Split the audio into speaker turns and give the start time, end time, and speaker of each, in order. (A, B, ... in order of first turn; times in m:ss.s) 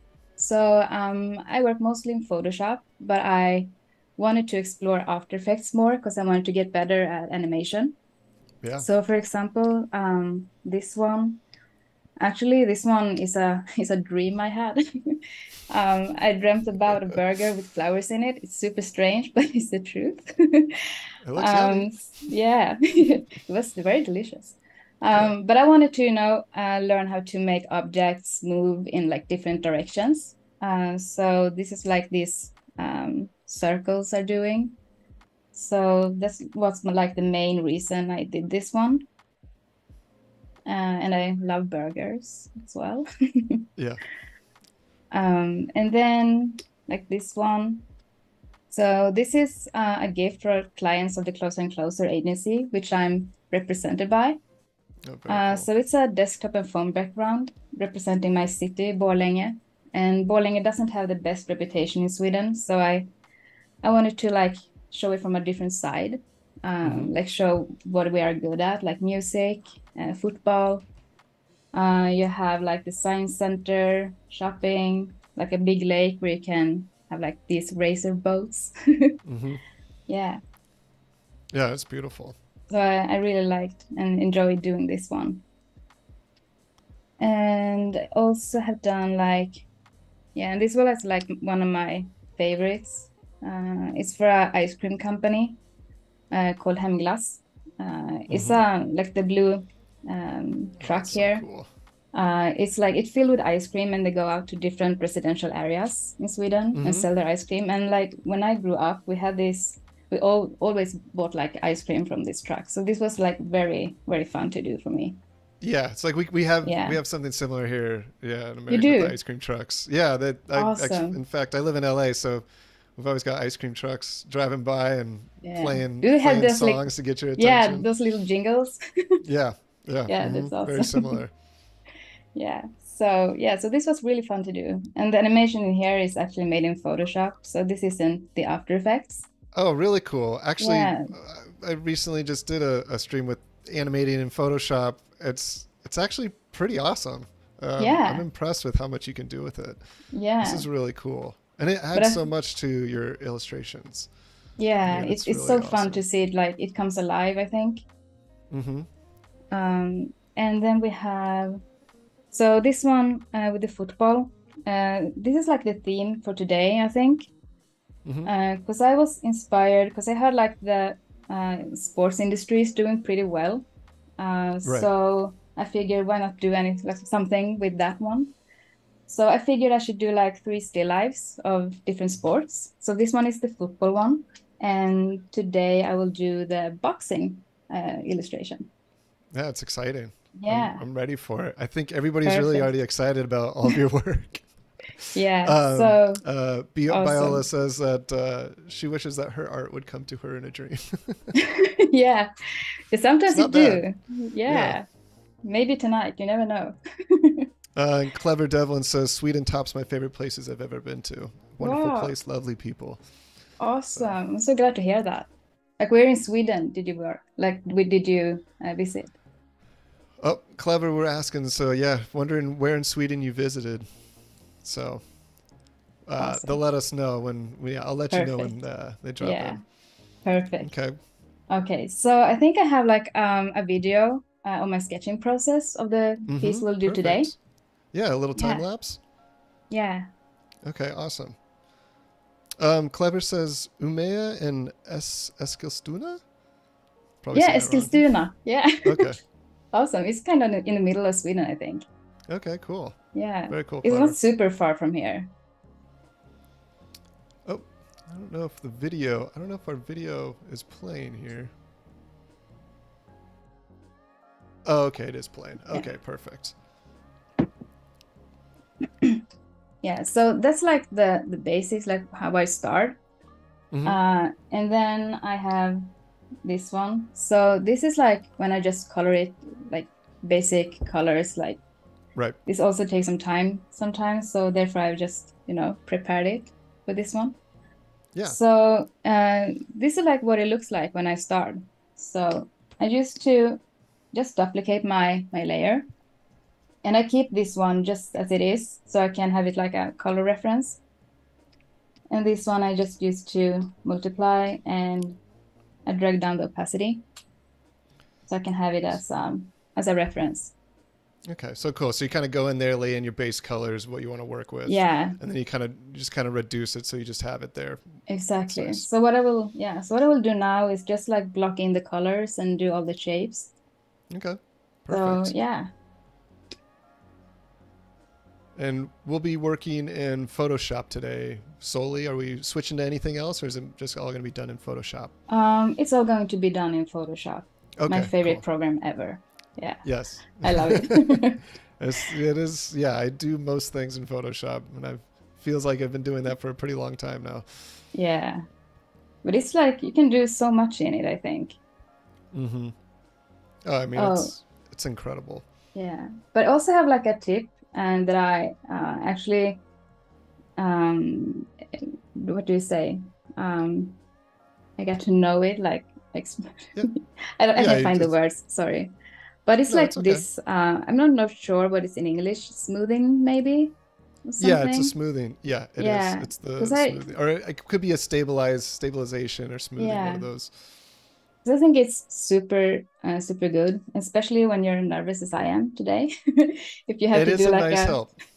0:00.4-0:08.0 A
0:08.8-0:11.4 A
0:12.2-0:15.2 A
0:15.7-0:34.7 A
0:16.9-0:17.2 B
0:21.2-0:21.9 B
0:35.5-0:39.0 A
0:40.6-0:43.7 A
0:45.1-0:47.8 A
0:48.7-0:54.4 A
0:55.0-0:55.7 B
0:55.3-1:03.1 A
1:03.8-1:10.8 A
1:06.8-1:07.1 B
1:11.7-1:19.2 A
1:19.2-1:19.6 B
1:20.1-1:20.4 A
1:21.5-1:22.4 B
1:22.7-1:25.4 A
1:27.2-1:29.6 A
1:30.3-1:35.6 A
1:36.3-1:41.4 A
1:38.3-1:38.6 B
1:40.8-1:41.7 B
1:42.1-1:55.2 A
1:46.7-1:47.1 B
1:55.6-2:07.9 B
1:56.6-1:57.0 A
1:58.7-1:59.2 A
2:00.5-2:01.2 A
2:05.4-2:09.2 A
2:09.2-2:11.3 B
2:10.1-2:11.2 A
2:12.3-2:19.3 A
2:19.5-2:29.8 B
2:20.6-2:21.1 A
2:27.8-2:28.2 A
2:30.1-2:30.7 A
2:30.4-2:34.1 B
2:31.9-2:32.2 A
2:34.6-2:37.8 A
2:34.8-2:36.0 B
2:38.5-2:38.9 B
2:39.5-2:41.6 A
2:42.3-2:47.3 A
2:48.0-2:48.3 B
2:48.2-2:53.6 A
2:54.2-2:58.3 A
2:54.6-2:54.9 B
2:59.1-3:08.7 A
3:09.3-3:14.5 B
3:10.4-3:10.8 A
3:12.2-3:12.7 A
3:15.0-3:21.3 B
3:15.1-3:16.2 A
3:16.9-3:17.4 A
3:21.3-3:22.3 A
3:22.9-3:24.8 A
3:23.3-3:23.8 B
3:24.5-3:24.8 B
3:25.4-3:27.4 A
3:27.7-3:33.0 B
3:31.6-3:32.1 A
3:33.6-3:39.1 A
3:40.2-3:43.8 B
3:44.6-3:45.0 B
3:46.0-3:49.6 B
3:46.2-3:46.6 A
3:48.1-3:48.5 A
3:49.2-3:49.6 A
3:50.2-3:50.7 A
3:50.6-3:51.0 B
3:51.5-3:57.3 A
3:56.3-3:57.4 B
3:57.9-3:59.0 B
3:58.4-3:58.6 A
3:59.7-4:00.1 A
4:00.6-4:01.4 B
4:02.6-4:06.2 B
4:07.2-4:08.0 B
4:07.3-4:09.2 A
4:08.8-4:09.2 B
4:09.7-4:11.8 A
4:12.3-4:14.2 B
4:13.1-4:15.3 A
4:17.4-4:21.5 B
4:24.6-4:26.5 B
4:29.8-4:33.0 A
4:33.7-4:34.0 B
4:33.8-4:35.8 A
4:36.4-4:41.6 A
4:42.4-4:47.4 A
4:48.2-4:53.6 A
4:54.1-4:55.9 A
4:56.8-5:00.8 A
5:02.1-5:05.2 A
5:05.8-5:07.0 A
5:08.3-5:10.5 A
5:11.3-5:17.8 B
5:14.6-5:15.2 A
5:18.1-5:23.5 A
5:18.5-5:18.9 B
5:24.1-5:25.3 B
5:24.9-5:25.7 A
5:28.6-5:35.1 B
5:35.3-5:39.8 A
5:37.8-5:38.4 B
5:39.8-5:47.5 B
5:40.4-5:41.4 A
5:47.9-5:48.4 A
5:49.2-5:51.6 A
5:52.3-5:52.7 B
5:53.6-5:55.4 B
5:54.0-5:54.3 A
5:55.7-5:59.6 A
6:00.6-6:04.0 A
6:04.8-6:08.9 A
6:07.6-6:08.1 B
6:09.4-6:13.7 A
6:09.7-6:10.2 B
6:14.2-6:14.9 A
6:14.4-6:20.5 B
6:15.8-6:17.1 A
6:19.8-6:20.3 A
6:21.4-6:28.0 A
6:27.1-6:28.1 B